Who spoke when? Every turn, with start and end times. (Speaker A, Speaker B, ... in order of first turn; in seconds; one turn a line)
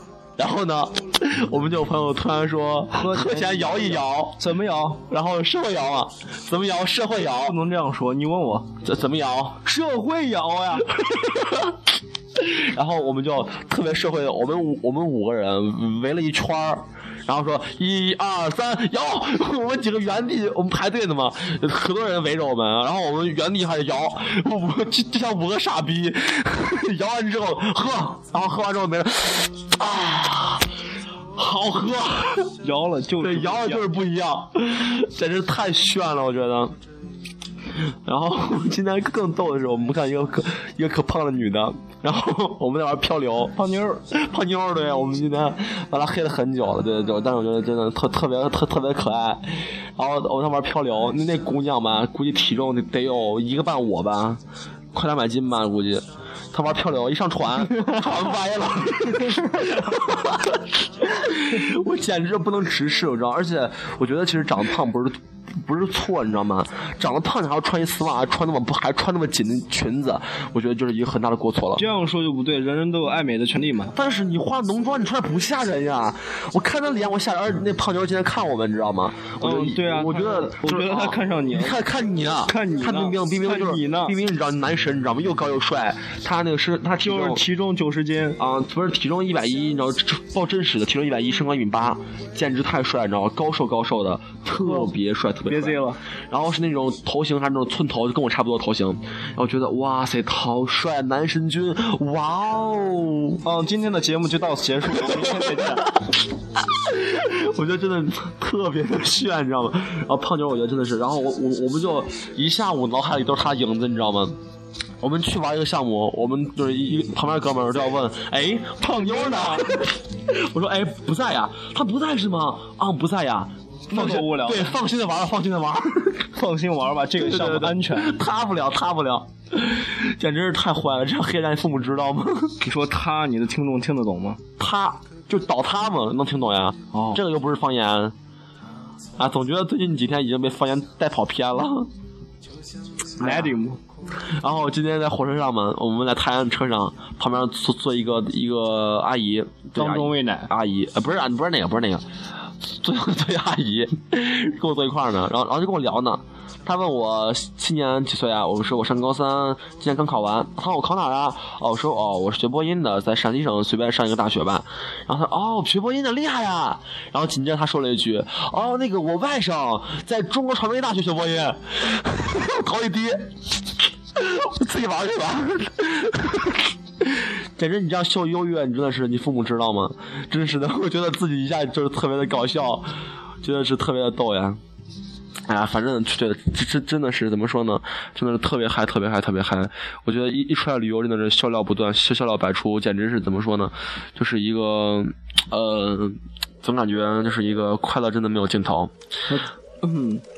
Speaker A: 0.4-4.4
Speaker B: 2.9-5.0
Speaker A: 5.1-7.6
Speaker B: 7.4-8.7
Speaker A: 8.8-9.6
Speaker B: 9.6-10.9
Speaker A: 10.9-11.8
Speaker A: 12.3-30.7
Speaker A: 31.4-32.5
Speaker B: 32.6-33.9
Speaker A: 33.2-36.7
Speaker A: 38.0-43.5
Speaker B: 43.5-44.0
Speaker A: 44.1-54.4
Speaker A: 54.9-71.8
Speaker B: 57.8-58.0
Speaker B: 59.0-59.4
Speaker B: 71.8-73.9
Speaker A: 73.9-87.4
Speaker B: 79.4-81.8
Speaker B: 82.5-84.1
Speaker B: 87.0-88.4
Speaker A: 88.4-103.4
Speaker B: 94.6-94.9
Speaker B: 95.5-96.0
Speaker B: 103.4-105.9
Speaker A: 105.0-114.4
Speaker A: 115.0-126.3
Speaker B: 118.8-119.8
Speaker B: 123.9-124.7
Speaker B: 126.3-128.2
Speaker A: 127.2-132.6
Speaker B: 132.6-134.4
Speaker A: 134.6-138.1
Speaker B: 136.9-137.2
Speaker A: 139.2-141.9
Speaker A: 143.2-143.5
Speaker B: 143.2-143.8
Speaker A: 144.4-152.0
Speaker B: 149.8-150.5
Speaker A: 152.6-173.3
Speaker A: 174.1-182.9
Speaker A: 183.4-184.6
Speaker A: 185.5-198.9
Speaker B: 199.3-200.2